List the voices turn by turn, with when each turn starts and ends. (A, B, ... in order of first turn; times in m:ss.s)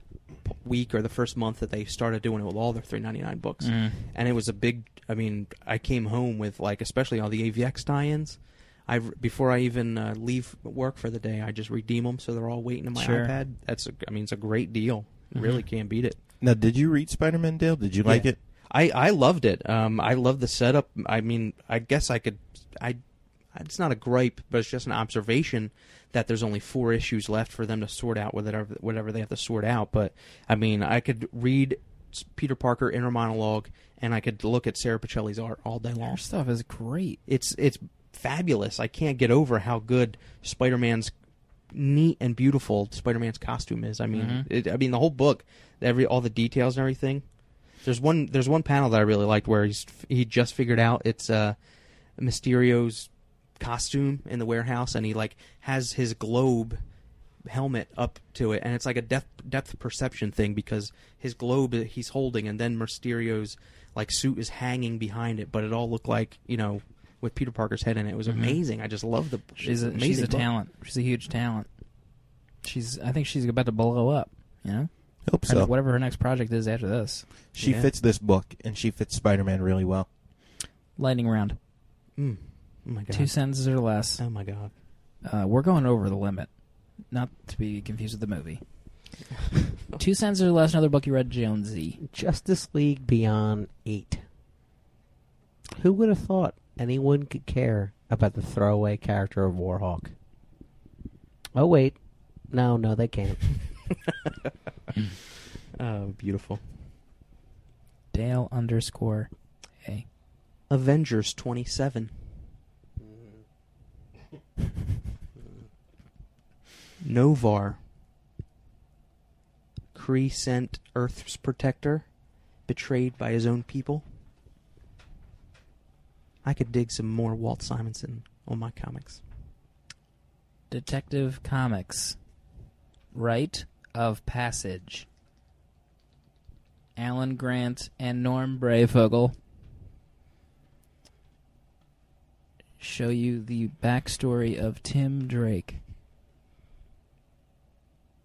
0:00.4-0:16.2 A
0:03.6-0:04.0 B
0:12.9-0:13.3 B
0:15.3-0:15.6 B
0:16.4-0:18.4 C
0:18.0-0:23.0 A
0:23.5-0:36.2 A
0:36.0-0:37.2 B
0:37.3-0:41.1 A
0:41.7-0:47.2 A
0:44.1-0:44.4 B
0:47.8-0:51.6 A
0:52.2-0:56.8 A
0:57.4-1:10.5 A
1:08.3-1:08.6 B
1:09.6-1:11.7 B
1:12.6-1:17.2 B
1:15.3-1:15.7 C
1:17.5-1:20.1 C
1:17.6-1:17.9 A
1:21.0-1:21.6 B
1:22.2-1:23.3 A
1:23.1-1:24.2 B
1:24.2-1:24.7 A
1:25.2-1:26.5 B
1:27.1-1:28.6 B
1:29.9-1:32.0 B
1:32.0-1:34.2 D
1:35.8-1:40.1 D
1:41.5-1:42.0 D
1:42.5-1:43.6 D
1:45.8-1:46.6 A
1:48.1-1:50.0 B
1:50.7-1:52.1 A
1:57.0-1:57.8 A
1:59.9-2:02.1 A
2:02.7-2:04.0 A
2:06.4-2:09.2 A
2:10.7-2:12.2 B
2:13.1-2:15.1 B
2:17.0-2:19.4 B
2:22.8-2:25.8 B